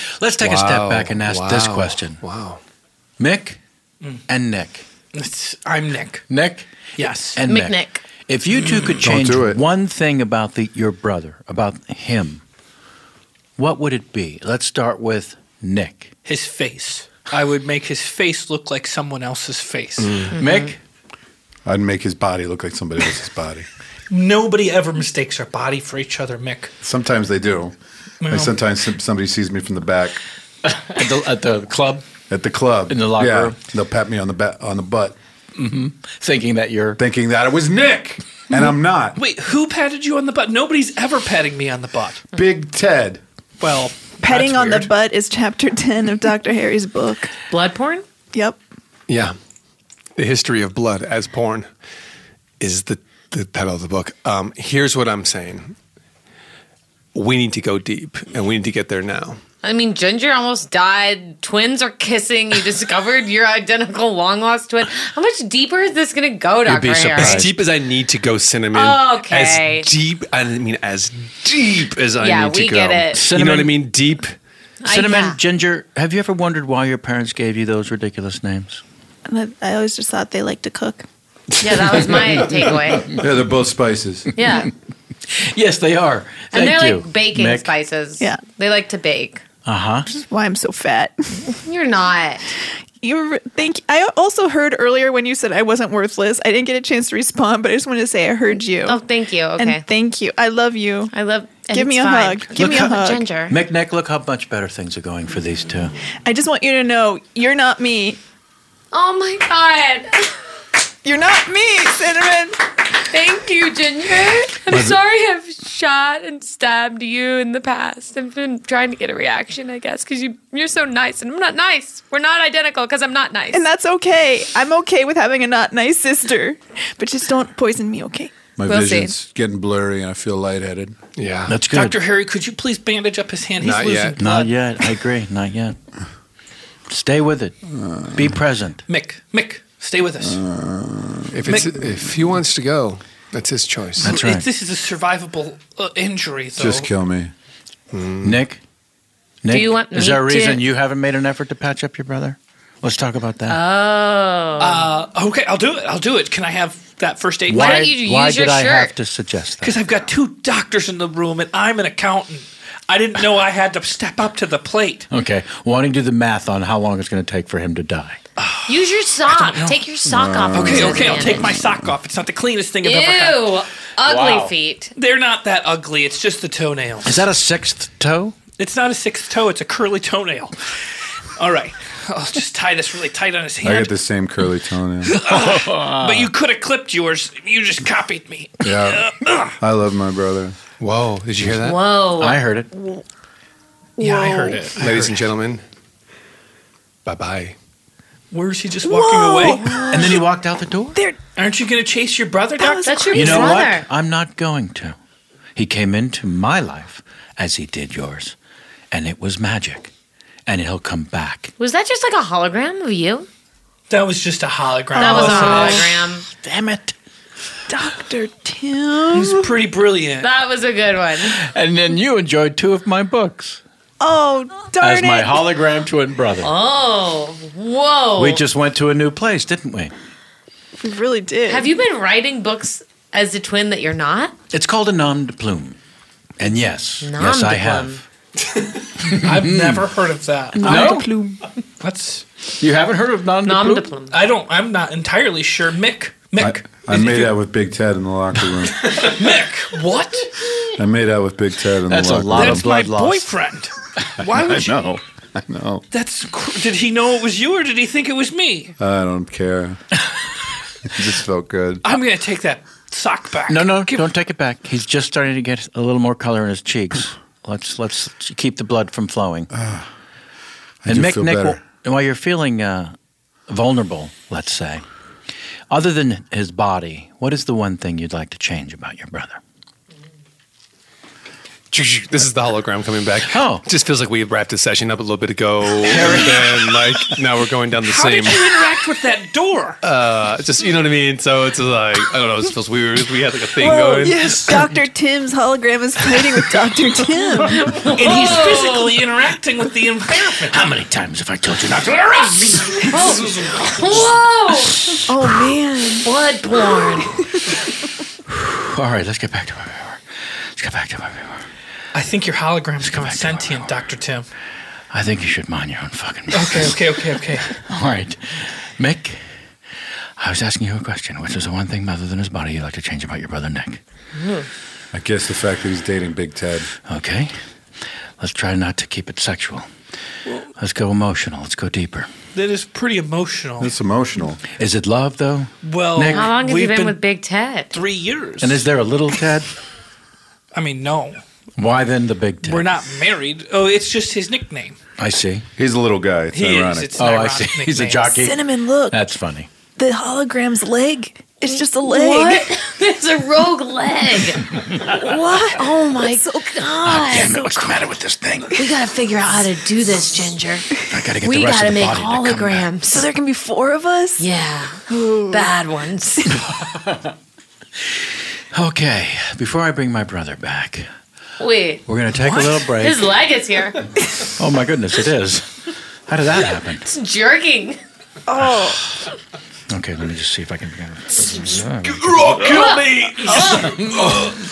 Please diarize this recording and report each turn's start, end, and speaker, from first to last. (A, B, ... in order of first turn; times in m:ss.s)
0:00.2-0:02.2 A
0:00.4-0:02.6 B
0:03.2-0:03.6 A
0:04.3-0:04.8 A
0:05.1-0:06.3 C
0:06.3-0:06.7 A
0:07.0-0:07.4 C
0:07.3-0:12.4 A
0:07.4-0:08.0 D
0:09.0-0:09.6 E
0:13.6-0:16.1 A
0:16.2-0:20.3 C
0:20.0-0:20.3 B
0:20.3-0:20.8 A
0:20.4-0:20.7 D
0:21.6-0:23.6 E
0:24.1-0:26.7 C
0:26.8-0:27.7 E
0:28.2-0:28.6 C
0:28.2-0:30.2 E
0:30.6-0:32.1 A
0:32.3-0:35.2 E
0:32.9-0:33.6 A
0:35.6-0:37.0 A
0:37.0-0:39.2 E
0:39.2-0:42.2 C
0:42.3-0:43.2 E
0:43.6-0:44.9 C
0:44.2-0:47.3 F
0:47.5-0:48.0 D
0:48.3-0:48.6 F
0:49.1-0:49.4 B
0:50.2-0:51.7 B
0:52.6-0:55.7 B
0:57.1-0:59.4 B
0:59.6-1:07.5 D
1:06.7-1:14.3 B
1:06.7-1:07.5 A
1:08.7-1:09.9 D
1:12.2-1:13.3 D
1:13.1-1:13.8 A
1:14.8-1:15.4 D
1:14.8-1:18.8 A
1:19.3-1:21.0 F
1:21.6-1:23.1 D
1:23.1-1:24.3 E
1:24.3-1:24.7 D
1:25.3-1:27.7 A
1:26.5-1:29.4 D
1:29.6-1:30.1 A
1:30.1-1:31.4 F
1:31.5-1:32.5 D
1:33.0-1:39.0 F
1:38.8-1:39.8 D
1:39.6-1:41.1 F
1:41.1-1:43.5 D
1:41.7-1:43.3 F
1:42.6-1:42.9 A
1:43.5-1:45.9 A
1:46.2-1:48.2 F
1:48.9-1:50.3 D
1:51.0-1:52.6 F
1:53.1-2:03.6 D
2:03.5-2:08.3 F
2:08.6-2:11.0 E
2:08.6-2:09.1 D
2:11.2-2:11.6 B
2:11.5-2:12.0 A
2:11.7-2:14.5 C
2:13.6-2:14.2 B
2:14.2-2:15.8 A
2:16.9-2:17.5 A
2:17.7-2:18.1 E
2:18.1-2:18.8 A
2:18.9-2:20.4 C
2:20.2-2:21.7 E
2:21.3-2:24.1 B
2:24.0-2:24.4 A
2:24.0-2:26.9 C
2:26.6-2:27.3 E
2:27.9-2:28.4 B
2:28.2-2:28.6 A
2:29.4-2:33.6 A
2:29.5-2:30.6 D
2:33.5-2:34.9 D
2:34.6-2:37.9 C
2:37.5-2:39.8 A
2:37.5-2:38.9 D
2:39.6-2:45.1 C
2:45.1-2:48.2 A
2:48.4-2:48.7 C
2:48.7-2:51.5 D
2:49.4-2:49.8 A
2:50.1-2:51.7 E
2:50.5-2:53.6 C
2:52.8-2:54.9 D
2:54.0-2:54.5 A
2:55.0-2:57.2 C
2:57.0-2:58.3 A
2:58.6-3:00.5 C
3:01.4-3:04.0 C
3:03.6-3:05.1 E
3:05.0-3:09.5 C
3:05.2-3:06.3 A
3:08.6-3:09.1 E
3:09.6-3:10.6 E
3:10.8-3:11.8 B
3:11.5-3:12.4 D
3:12.2-3:12.7 A
3:12.7-3:13.0 F
3:14.0-3:14.7 F
3:14.0-3:15.1 C
3:14.7-3:15.6 B
3:17.0-3:17.6 B
3:18.3-3:19.8 C
3:18.8-3:20.3 F
3:19.9-3:21.0 A
3:20.9-3:21.2 F
3:21.4-3:23.3 C
3:22.6-3:23.4 F
3:22.7-3:23.8 D
3:23.1-3:25.0 A
3:25.6-3:28.4 A
3:28.9-3:29.9 A
3:30.4-3:31.5 A
3:31.6-3:33.3 D
3:33.9-3:35.9 C
3:35.0-3:36.2 D
3:35.0-3:35.8 F
3:36.3-3:36.9 A
3:37.7-3:39.5 F
3:39.1-3:40.3 C
3:40.2-3:41.4 D
3:41.2-3:43.6 A
3:44.0-3:45.4 F
3:44.8-3:46.5 A
3:46.4-3:48.4 D
3:48.2-3:49.9 A
3:50.8-3:51.7 F
3:51.5-3:54.3 D
3:54.5-3:55.8 A
3:56.4-3:58.0 A
3:57.0-3:58.0 D
3:59.0-3:59.8 A
3:59.1-4:01.0 C
4:00.5-4:01.4 F
4:00.6-4:01.1 A
4:01.8-4:02.2 C
4:02.6-4:03.9 A
4:03.4-4:04.2 D
4:04.1-4:07.3 C
4:06.4-4:09.0 E
4:08.8-4:10.3 C
4:10.8-4:12.7 E
4:11.9-4:13.3 A
4:12.3-4:14.8 C
4:14.2-4:15.8 E
4:15.9-4:18.7 C
4:18.8-4:19.8 E
4:20.9-4:21.8 E
4:21.8-4:24.0 C
4:23.5-4:29.5 A
4:29.5-4:29.8 E
4:30.8-4:31.6 E
4:30.8-4:32.9 A
4:33.5-4:34.8 A
4:35.7-4:39.4 A
4:41.7-4:48.6 B
4:43.3-4:43.6 A
4:45.8-4:46.9 A
4:47.8-4:49.8 C
4:49.8-4:54.6 B
4:53.6-4:57.7 F
4:57.4-4:59.0 D
4:57.8-5:00.6 C
5:00.5-5:02.9 A
5:02.8-5:04.8 D
5:05.1-5:06.8 F
5:06.0-5:07.1 D
5:08.3-5:10.0 A
5:10.5-5:11.4 A
5:11.9-5:14.2 C
5:12.8-5:13.7 A
5:14.9-5:16.8 A
5:16.3-5:17.5 C
5:17.6-5:19.2 A
5:20.2-5:23.8 A
5:24.2-5:24.4 D
5:24.9-5:26.7 E
5:26.8-5:27.3 A
5:28.2-5:29.7 A
5:30.6-5:32.1 A
5:32.3-5:33.7 C
5:33.6-5:34.4 E
5:34.6-5:36.3 A
5:35.6-5:37.0 C
5:36.1-5:37.7 D
5:37.7-5:38.6 C
5:38.4-5:39.5 A
5:40.5-5:41.2 C
5:41.6-5:42.7 A
5:42.4-5:44.8 C
5:45.0-5:45.4 A
5:45.6-5:47.0 E
5:46.3-5:48.2 C
5:47.0-5:49.5 A
5:48.2-5:49.0 F
5:49.8-5:52.6 F
5:51.4-5:54.5 D
5:54.9-5:56.5 F
5:55.4-5:57.5 D
5:56.8-5:58.7 A
5:58.6-6:00.6 D
6:00.9-6:02.7 A
6:01.2-6:03.1 D
6:02.9-6:04.2 F
6:04.2-6:06.2 D
6:04.9-6:05.5 F
6:06.3-6:07.1 A
6:07.8-6:10.9 A
6:11.4-6:13.8 D
6:11.9-6:13.0 A
6:14.3-6:15.5 A
6:16.1-6:16.9 A
6:16.8-6:17.8 D
6:18.3-6:18.8 F
6:19.7-6:22.8 A
6:22.4-6:23.9 D
6:23.4-6:24.3 A